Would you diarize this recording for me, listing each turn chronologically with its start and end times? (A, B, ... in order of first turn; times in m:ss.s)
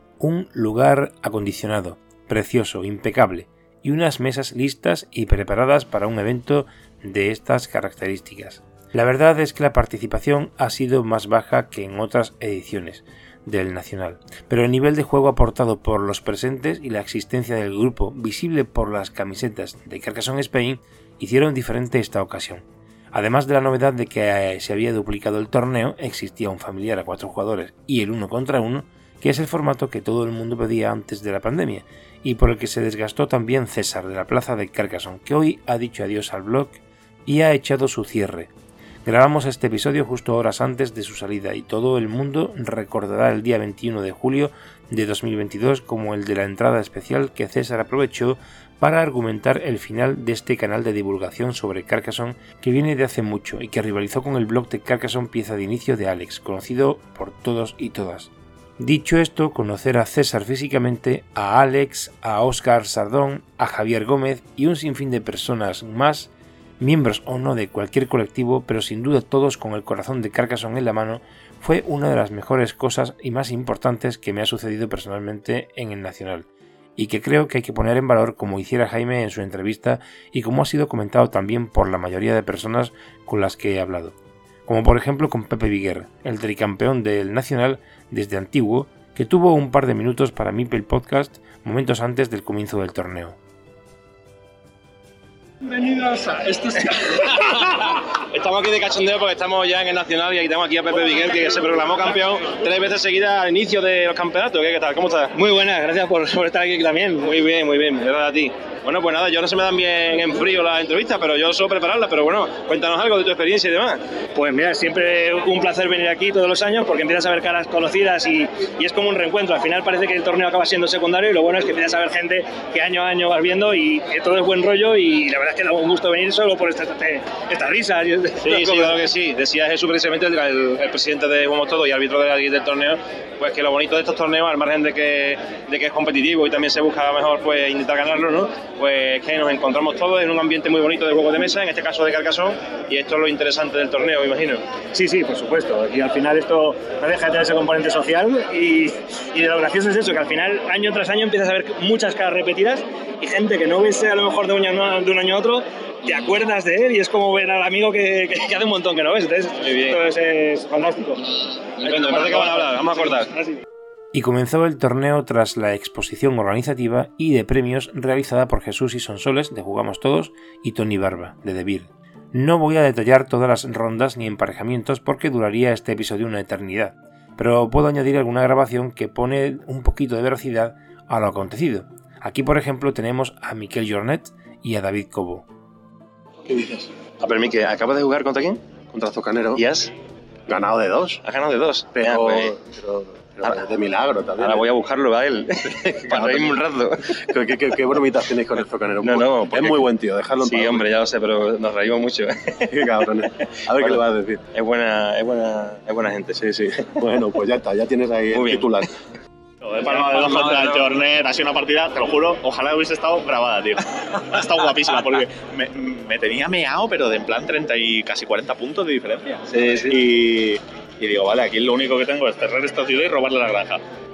0:00.2-0:38.5 A
0:39.0-1:24.2 A
1:24.7-1:33.4 A
1:35.7-1:36.9 B
1:37.1-1:45.8 C
1:45.5-1:47.2 B
1:47.2-1:54.0 C
1:54.4-2:09.0 B
2:08.4-2:24.6 C
2:24.9-2:41.3 B
2:39.6-2:40.0 C
2:41.8-2:43.5 B
2:41.8-2:43.3 C
2:44.1-3:05.5 A
3:07.2-3:08.6 C
3:08.9-3:09.6 D
3:09.6-3:09.9 C
3:10.5-3:11.2 D
3:11.2-3:12.5 C
3:12.0-3:14.7 D
3:14.4-3:17.1 C
3:16.1-3:16.6 D
3:17.2-3:20.9 D
3:19.0-3:19.9 C
3:20.4-3:22.7 C
3:22.7-3:24.4 D
3:23.8-3:24.0 C
3:24.5-3:26.4 C
3:26.4-3:28.9 D
3:28.3-3:28.7 C
3:29.7-3:43.8 E
3:29.8-3:30.7 C
3:39.5-3:40.0 C